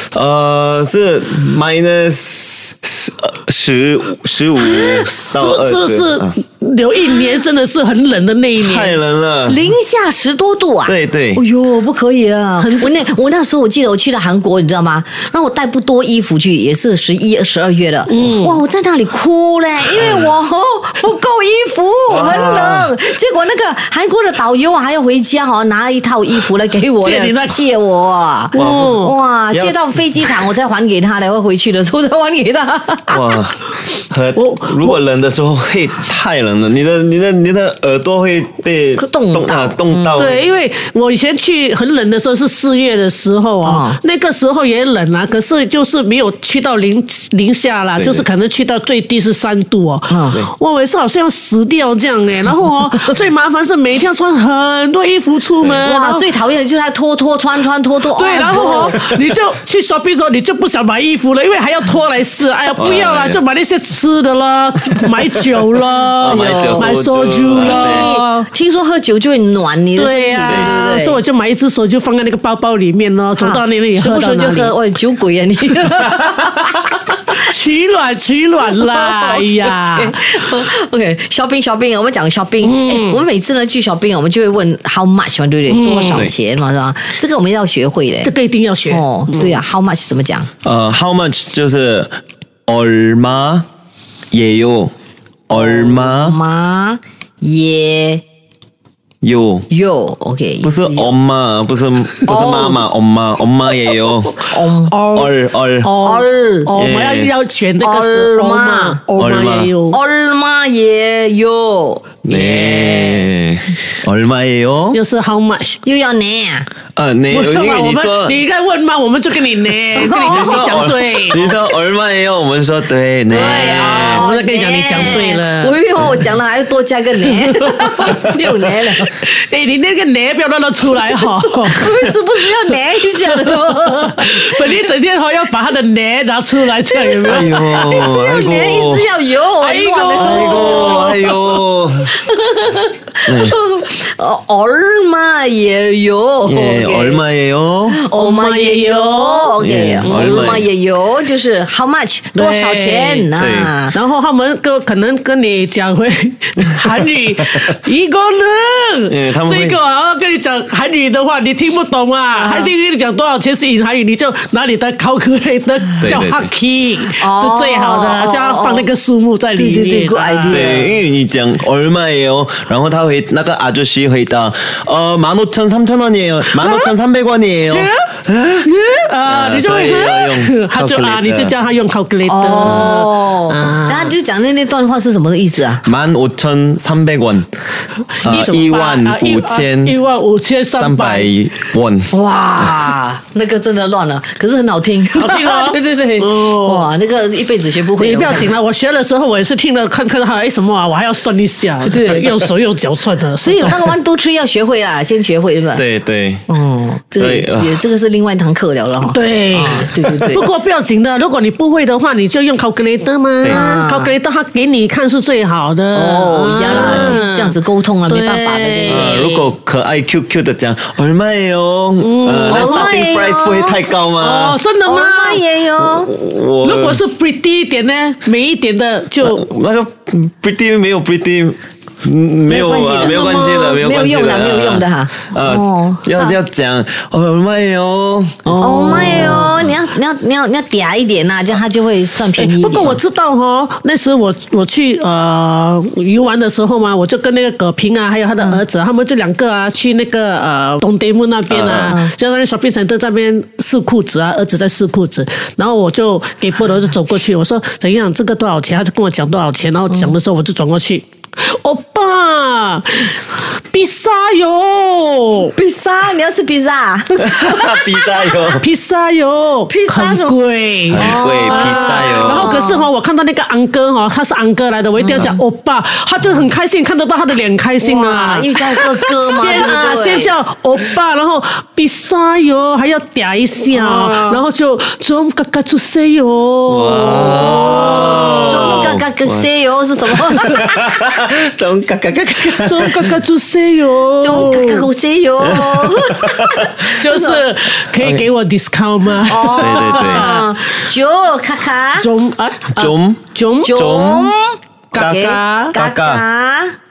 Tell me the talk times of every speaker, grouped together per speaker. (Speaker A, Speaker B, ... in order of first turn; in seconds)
Speaker A: 0.1-6.3, 8.6-9.7, 10.8-11.4, 19.9-20.3, 22.1-22.9, 28.5-29.0, 29.5-29.8, 33.1-40.4, 48.0-48.2, 58.9-59.2, 62.8-63.4, 66.2-68.1, 90.6-92.2, 92.7-93.7, 94.3-94.9, 95.5-96.4, 99.2-99.7, 100.6-104.3, 105.1-105.9, 106.8-107.3, 109.2-109.7, 112.2-115.0, 117.0-118.4, 120.3-124.3, 137.2-139.1, 140.2-142.2, 143.3-143.6, 146.4-148.0, 149.6-150.7, 153.4-153.7, 159.1-159.8, 166.0-166.5, 170.5-178.7, 179.3-181.5, 185.8-187.5, 188.2-190.0, 190.8-192.1, 205.8-206.5, 207.2-207.8, 216.7-217.2, 218.9-224.6, 225.8-227.0, 229.2-239.7, 251.5-252.0, 267.2-268.6, 270.9-272.6, 286.7-289.5, 290.1-293.2, 295.4-296.9, 298.0-298.3, 299.6-300.4, 302.8-304.4, 305.7-306.2
Speaker B: 4.6-9.0, 12.6-13.0, 18.1-18.6, 27.0-27.6, 28.5-29.2, 34.4-35.0, 40.1-56.3, 58.1-68.5, 70.0-74.8, 77.4-80.3, 82.6-83.2, 85.7-86.3, 88.2-89.6, 104.9-105.3, 105.8-110.0, 112.3-113.3, 114.9-115.8, 117.3-121.4, 123.4-125.8, 127.2-131.9, 133.2-138.1, 139.6-141.2, 148.1-150.6, 152.3-153.3, 153.9-170.7, 176.5-176.9, 177.7-184.1, 188.2-191.3, 195.2-196.9, 198.0-203.9, 209.1-217.6, 218.1-219.5, 222.0-223.1, 224.2-225.4, 226.6-229.5, 233.0-233.8, 238.4-239.6, 242.3-265.5, 268.6-288.9, 292.6-294.9, 296.9-300.5, 302.0-303.9, 304.9-305.8
Speaker C: 9.5-33.4, 39.0-40.4, 43.6-44.0, 50.1-50.5, 55.8-59.0, 66.3-71.2, 73.4-77.4, 78.7-88.3, 88.9-90.5, 95.5-98.2, 99.7-101.1, 102.2-102.9, 104.5-105.1, 106.0-106.8, 107.8-109.0, 109.9-112.2, 115.8-116.7, 119.9-120.8, 123.3-129.1, 130.9-134.8, 136.8-141.3, 142.1-147.2, 147.9-154.0, 162.3-162.7, 167.2-168.9, 169.6-171.0, 182.3-185.8, 192.1-198.5, 201.9-202.4, 203.4-205.8, 206.5-210.5, 213.4-214.1, 215.9-219.2, 222.5-223.8, 224.8-226.1, 232.5-236.4, 238.6-243.0, 251.8-252.1, 265.5-268.5, 269.7-270.4, 270.9-272.9, 275.0-275.4, 277.8-280.3, 283.7-284.4, 287.4-291.0, 294.2-297.4, 299.2-302.1, 303.6-306.8